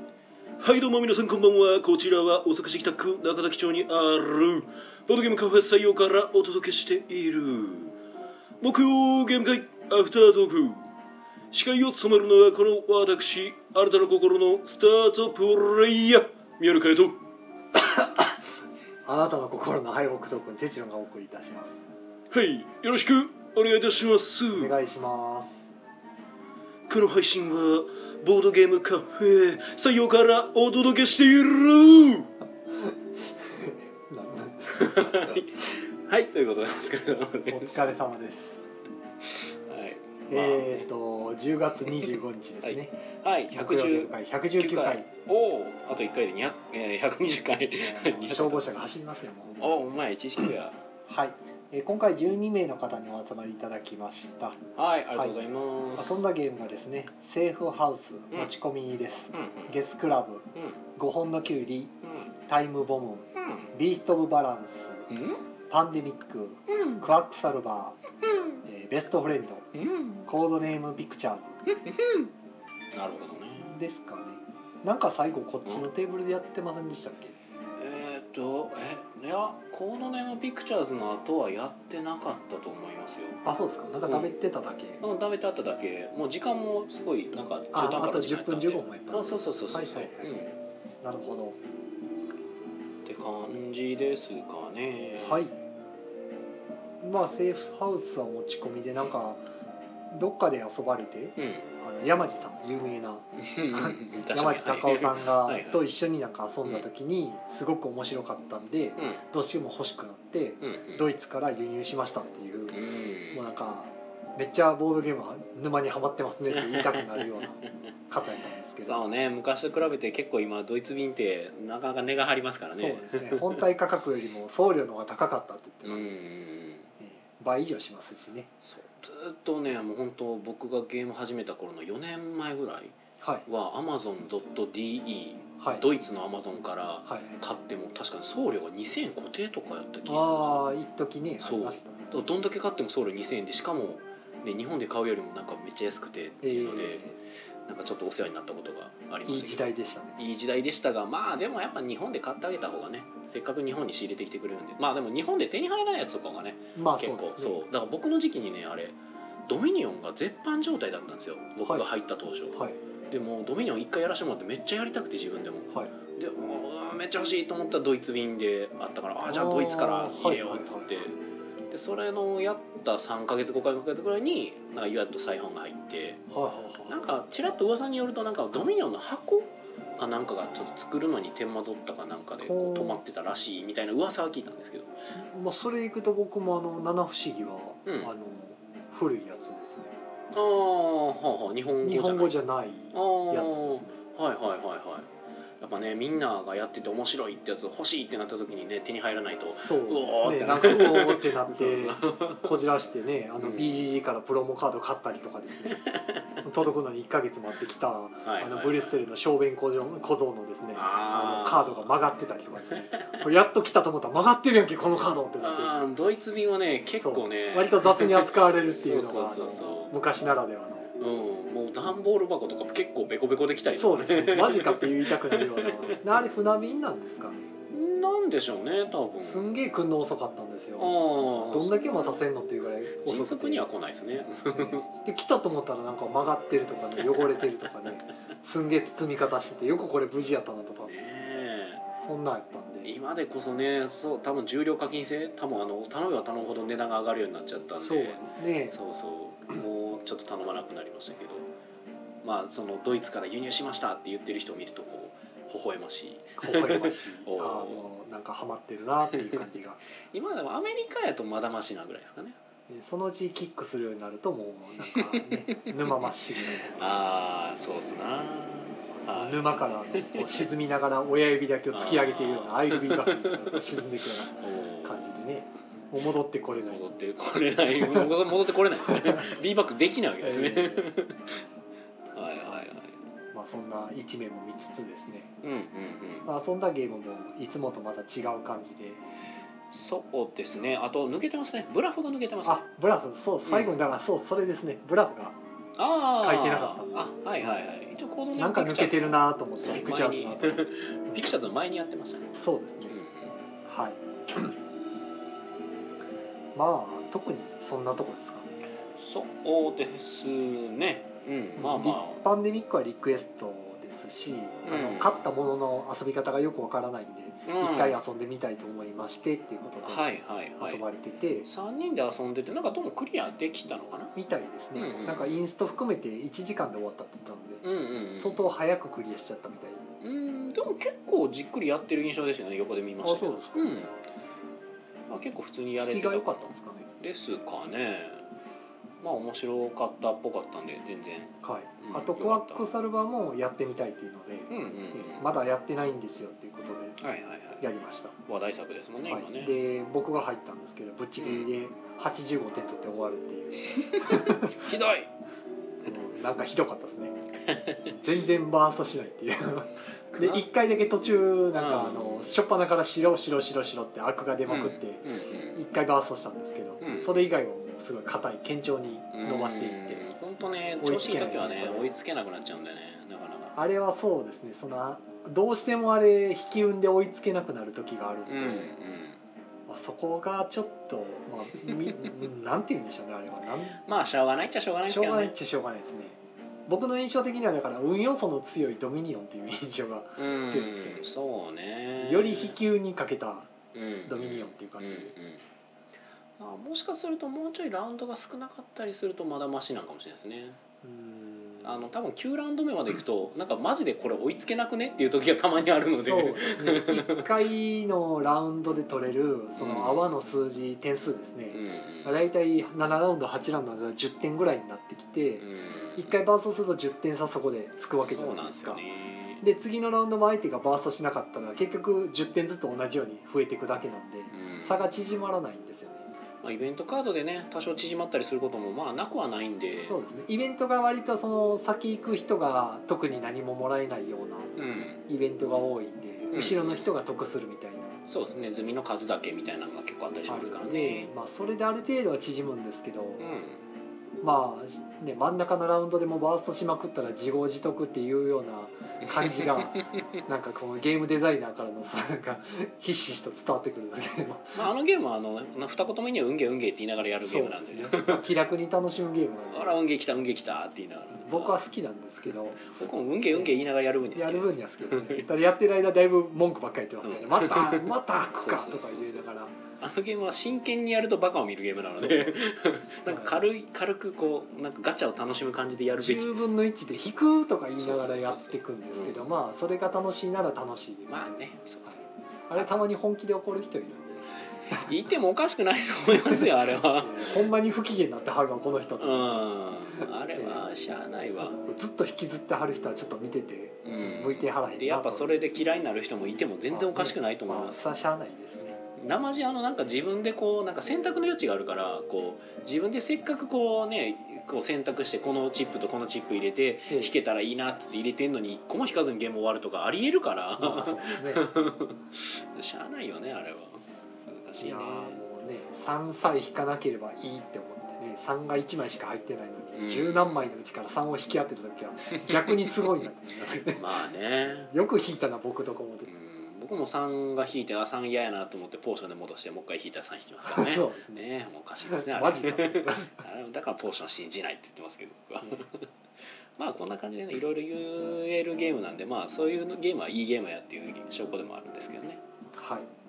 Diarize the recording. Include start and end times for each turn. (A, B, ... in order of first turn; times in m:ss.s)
0:00.6-0:07.9 A
0:08.6-0:10.8 A
0:11.5-0:17.2 A
0:17.7-0:18.5 B
0:19.0-0:21.8 B
0:22.3-0:24.7 A
0:24.5-0:25.7 B
0:26.9-0:32.3 A
0:32.7-0:35.5 B
0:34.7-0:37.8 A
0:37.5-0:38.6 B
0:39.2-0:40.9 A
0:40.3-0:42.9 B
0:42.6-0:48.7 A
0:43.5-0:45.1 B
0:47.8-0:49.8 B
0:49.6-0:50.8 A
0:51.1-0:54.6 B
0:54.8-0:56.2 A
0:56.0-1:05.1 B
0:59.3-0:59.8 A
1:02.0-1:02.3 A
1:03.4-1:03.7 A
1:05.1-1:05.4 A
1:05.7-1:08.0 B
1:06.7-1:07.0 A
1:08.2-1:08.6 A
1:08.6-1:09.7 B
1:09.7-1:10.3 A
1:10.3-1:11.6 B
1:11.7-1:12.3 A
1:12.9-1:13.8 A
1:13.6-1:17.4 B
1:17.8-1:23.4 A
1:23.4-1:25.0 B
1:24.0-1:24.3 A
1:25.0-1:30.5 A
1:27.7-1:30.4 B
1:31.0-1:31.6 B
1:33.0-1:35.4 A
1:35.2-1:35.6 B
1:37.0-1:39.4 B
1:40.1-1:52.8 B
1:41.4-1:41.7 A
1:43.4-1:45.8 A
1:49.0-1:49.2 A
1:50.6-1:51.1 A
1:52.7-1:53.6 A
1:53.3-1:59.0 B
1:56.5-1:57.7 A
1:58.8-2:03.6 A
2:02.8-2:06.0 B
2:05.8-2:06.9 A
2:07.0-2:08.5 B
2:08.6-2:20.7 A
2:13.2-2:13.4 B
2:15.6-2:15.9 B
2:20.1-2:22.1 B
2:21.4-2:27.1 A
2:26.4-2:27.2 B
2:27.7-2:39.0 A
2:29.3-2:30.2 B
2:36.8-2:37.6 B
2:39.5-2:51.2 A
2:49.3-2:51.1 B
2:51.7-2:56.2 A
2:56.3-2:57.0 B
2:56.9-3:04.9 A
3:02.4-3:03.0 B
3:05.2-3:09.9 B
3:07.9-3:08.1 A
3:10.3-3:12.3 A
3:11.8-3:13.9 B
3:12.9-3:15.1 A
3:15.6-3:22.5 A
3:19.5-3:25.8 B
3:23.4-3:23.7 A
3:25.6-3:26.4 A
3:26.4-3:35.7 B
3:28.2-3:28.9 A
3:30.7-3:31.9 A
3:33.0-3:33.2 A
3:35.4-3:39.9 A
3:37.0-3:40.9 B
3:41.0-3:46.0 A
3:43.7-3:47.5 B
3:47.7-3:49.6 A
3:49.2-3:53.7 B
3:50.8-3:52.2 A
3:53.0-3:54.9 A
3:54.4-4:00.9 B
3:57.1-3:57.7 A
4:00.9-4:01.8 A
4:02.0-4:02.9 B
4:02.8-4:11.5 A
4:07.8-4:08.8 B
4:12.2-4:17.8 A
4:16.4-4:19.8 B
4:19.2-4:19.4 A
4:20.1-4:22.4 A
4:22.7-4:26.8 B
4:24.8-4:30.5 A
4:29.1-4:36.9 B
4:31.7-4:33.6 A
4:34.4-4:35.1 A
4:36.6-4:41.4 A
4:37.8-4:38.1 B
4:38.8-4:39.4 B
4:40.2-4:40.9 B
4:42.1-4:43.0 A
4:43.3-4:45.3 B
4:45.4-4:46.3 A
4:46.2-4:49.0 B
4:49.7-4:52.6 A
4:52.4-4:55.4 B
4:53.5-4:53.7 A
4:55.8-5:03.3 A
4:56.2-4:57.0 B
4:58.4-5:01.3 B
5:02.4-5:03.0 B
5:03.6-5:04.6 B
5:06.6-5:08.5 B
5:09.0-5:12.2 A
5:11.6-5:20.1 B
5:14.6-5:15.3 A
5:17.4-5:18.0 A
5:19.8-5:20.8 A
5:20.6-5:21.5 B
5:21.4-5:24.2 A
5:24.2-5:27.6 B
5:24.8-5:25.4 A
5:27.6-5:28.5 A
5:28.2-5:29.8 B
5:30.0-5:34.0 A
5:33.0-5:33.7 B
5:35.1-5:38.2 A
5:35.8-5:36.9 B
5:39.0-5:42.7 A
5:41.4-5:47.0 B
5:44.5-5:45.3 A
5:47.0-5:47.7 A
5:47.6-5:48.2 B
5:48.2-5:49.6 A
5:49.1-5:54.7 B
5:51.2-5:51.5 A
5:53.8-5:55.1 A
5:55.8-5:57.2 B
5:57.4-5:58.0 A
5:58.0-6:10.0 B
6:00.1-6:00.4 A
6:01.6-6:02.4 A
6:04.5-6:05.6 A
6:06.8-6:07.3 A
6:09.1-6:13.6 A
6:10.8-6:11.9 B
6:13.6-6:18.7 B
6:18.3-6:19.2 A
6:19.7-6:23.8 B
6:21.6-6:22.1 A
6:23.8-6:25.3 A
6:24.8-6:31.1 B
6:30.2-6:32.6 A
6:32.0-6:33.5 B
6:33.7-6:35.4 A
6:34.1-6:35.1 B
6:36.4-6:40.6 A
6:40.8-6:41.7 B
6:41.6-6:47.3 A
6:45.9-6:55.5 B
6:49.6-6:50.1 A
6:51.5-6:52.1 A
6:55.4-6:56.2 A
6:56.0-6:58.8 B
6:58.0-6:59.4 A
6:59.4-7:06.1 B
7:04.3-7:04.9 A
7:06.4-7:10.0 A
7:09.8-7:14.5 B
7:14.6-7:15.0 A
7:15.1-7:18.0 B
7:16.3-7:16.9 A
7:18.1-7:21.1 A
7:20.3-7:23.4 B
7:23.2-7:23.6 A
7:24.2-7:34.6 B
7:29.0-7:30.2 A
7:34.5-7:38.2 A
7:37.2-7:39.8 B
7:39.5-7:41.6 A
7:41.2-7:42.6 B
7:42.6-7:45.3 A
7:43.3-7:43.6 B
7:44.2-7:49.6 B
7:47.0-7:56.5 A
7:52.1-7:52.4 B
7:53.1-7:53.4 B
7:56.0-8:01.3 B
7:57.8-7:59.4 A
8:01.1-8:02.8 A
8:02.5-8:04.9 B
8:04.4-8:07.5 A
8:06.1-8:09.4 B
8:09.0-8:11.6 A
8:10.4-8:10.6 B
8:11.5-8:15.4 B
8:13.8-8:17.8 A
8:16.7-8:18.8 B
8:19.0-8:35.2 A
8:26.9-8:27.2 B
8:30.6-8:31.4 B
8:34.6-8:43.9 B
8:39.8-8:40.4 A
8:42.1-8:42.8 A
8:43.7-8:44.7 A
8:44.7-8:46.1 B
8:46.1-8:55.9 A
8:50.4-8:51.2 B
8:51.9-8:53.2 B
8:56.6-9:02.2 A
9:02.5-9:02.9 B